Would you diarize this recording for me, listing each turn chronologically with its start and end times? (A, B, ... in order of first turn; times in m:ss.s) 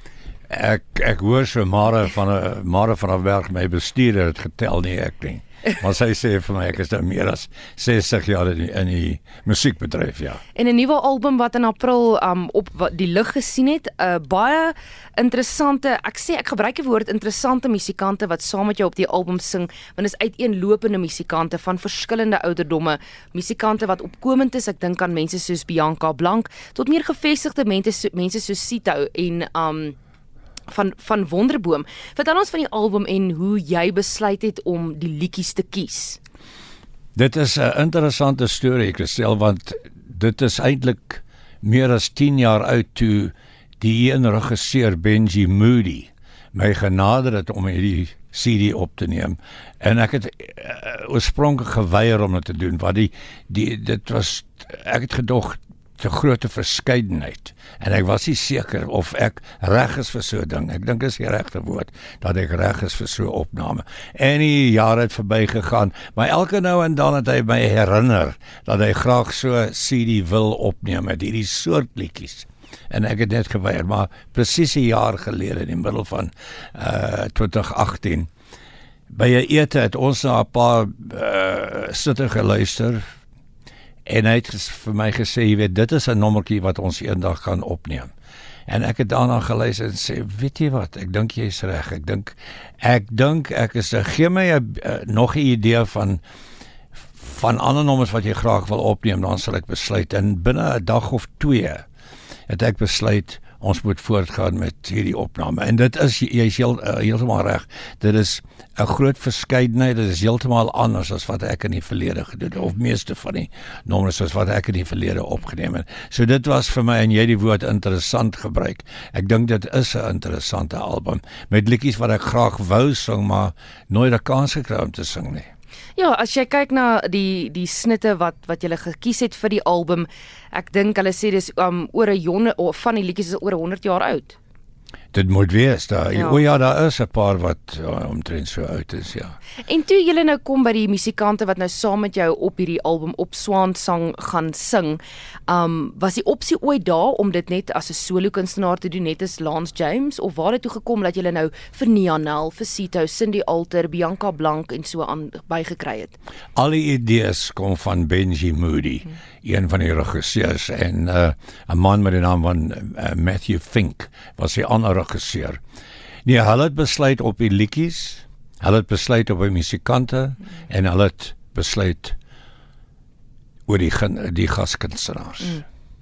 0:00.5-0:10.4 A
0:10.6-0:30.0 B
0:30.7-0:36.2 B
0:37.2-1:18.3 A
1:19.1-1:23.0 A
1:24.1-1:28.1 A
1:28.7-1:36.2 A
1:37.2-1:41.8 A
1:42.5-2:05.5 A
2:06.0-2:14.4 B
2:15.1-2:19.4 A
2:16.2-2:16.4 B
2:19.6-2:36.2 B
2:36.6-2:45.6 A
2:46.2-2:52.2 A
2:53.7-2:55.6 A